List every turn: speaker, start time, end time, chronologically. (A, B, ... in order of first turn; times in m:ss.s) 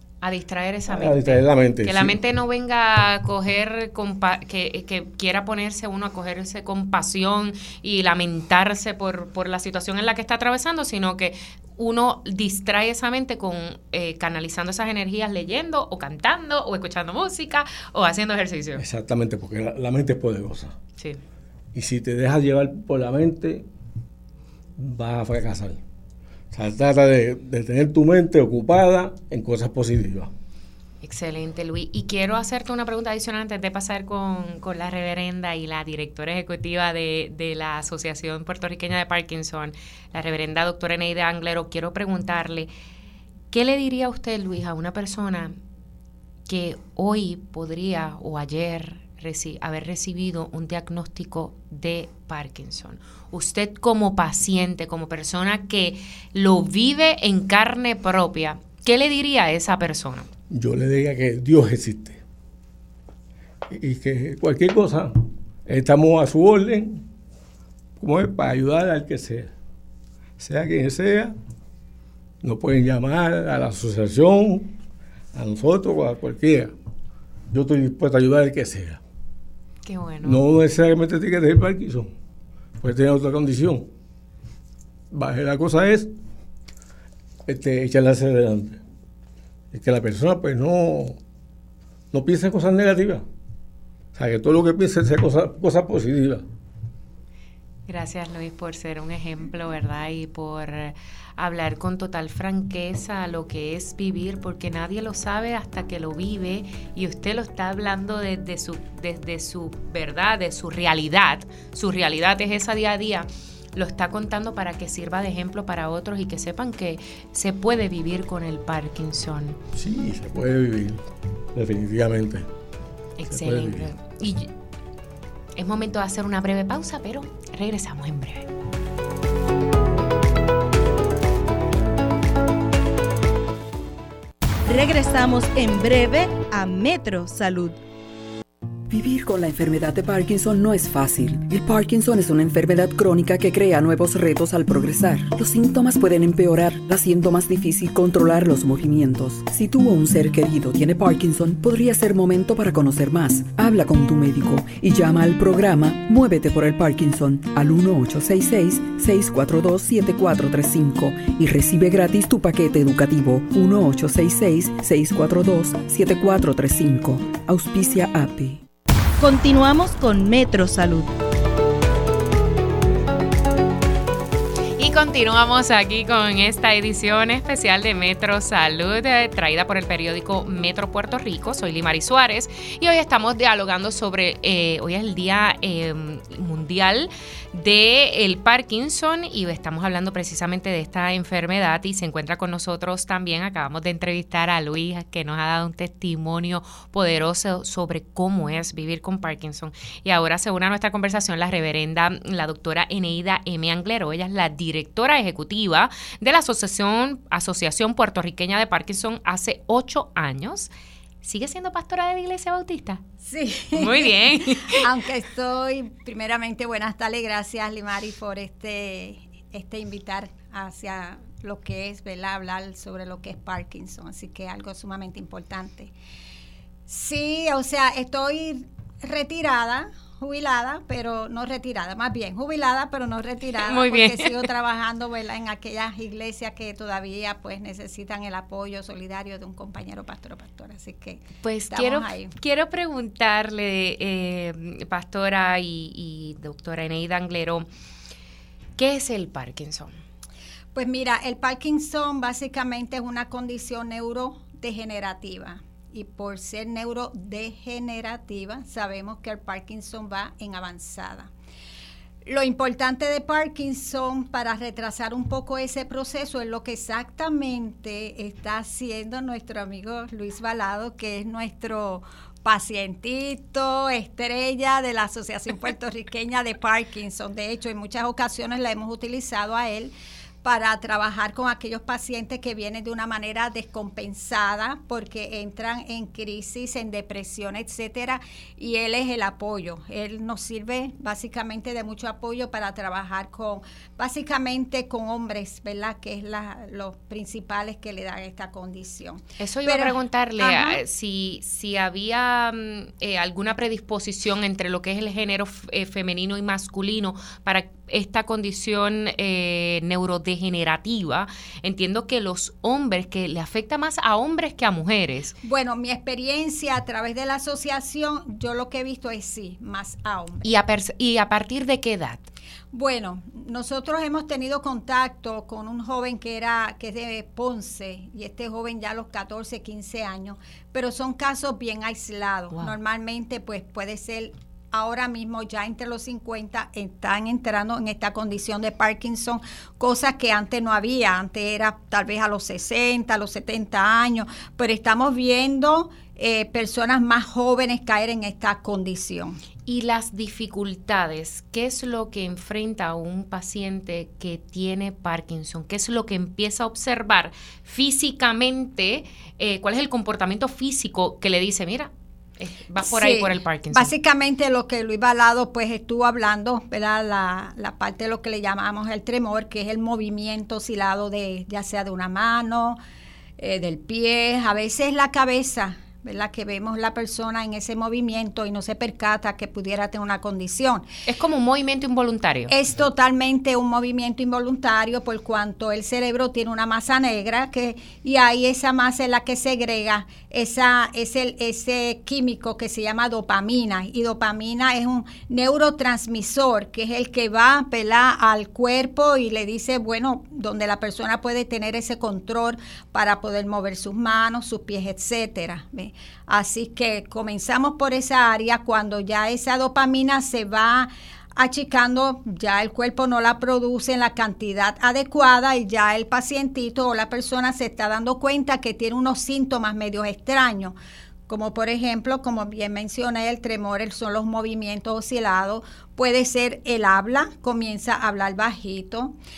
0:00.2-0:18.8 A
0:00.9-0:02.2 B
0:18.8-0:20.8 B
0:21.7-0:23.7 B
0:24.8-0:25.8 B
0:26.5-0:30.3 B
0:31.0-0:42.7 A
0:43.5-0:45.5 A
0:46.5-1:00.3 A
1:00.5-1:02.2 B
1:03.7-1:05.1 B
1:05.6-1:07.0 B
1:08.0-1:09.5 B
1:10.4-1:11.3 B
1:12.4-1:14.7 B
1:15.3-1:16.7 B
1:17.5-1:19.0 B
1:19.8-1:20.4 A
1:20.2-1:22.1 B
1:22.8-1:23.9 B
1:25.1-1:26.1 B
1:27.4-1:28.8 B
1:29.7-1:31.2 B
1:32.1-1:33.2 B
1:34.1-1:36.4 B
1:37.9-1:59.6 A
1:59.7-2:01.0 B
2:01.5-2:02.5 B
2:03.2-2:04.5 A
2:03.3-2:03.9 B
2:05.6-2:08.5 A
2:14.6-2:17.8 C
2:18.9-2:48.6 D
2:49.2-2:51.1 C
2:54.8-3:30.7 A
3:31.2-3:33.0 A
3:33.2-3:45.9 E
3:33.7-3:34.9 A
3:46.9-4:02.3 E
3:53.6-3:54.5 A
4:01.4-4:07.6 A
4:08.8-4:09.9 A
4:10.7-4:21.3 E
4:22.2-4:39.9 E
4:40.4-5:00.8 E
4:59.4-5:15.3 A
5:15.4-5:20.5 E
5:20.4-5:22.3 A
5:22.7-5:49.4 E
5:49.6-6:03.9 A
6:02.8-6:12.8 E
6:13.4-6:20.8 E
6:21.0-6:22.5 A
6:22.5-7:00.8 E
7:01.3-7:09.1 E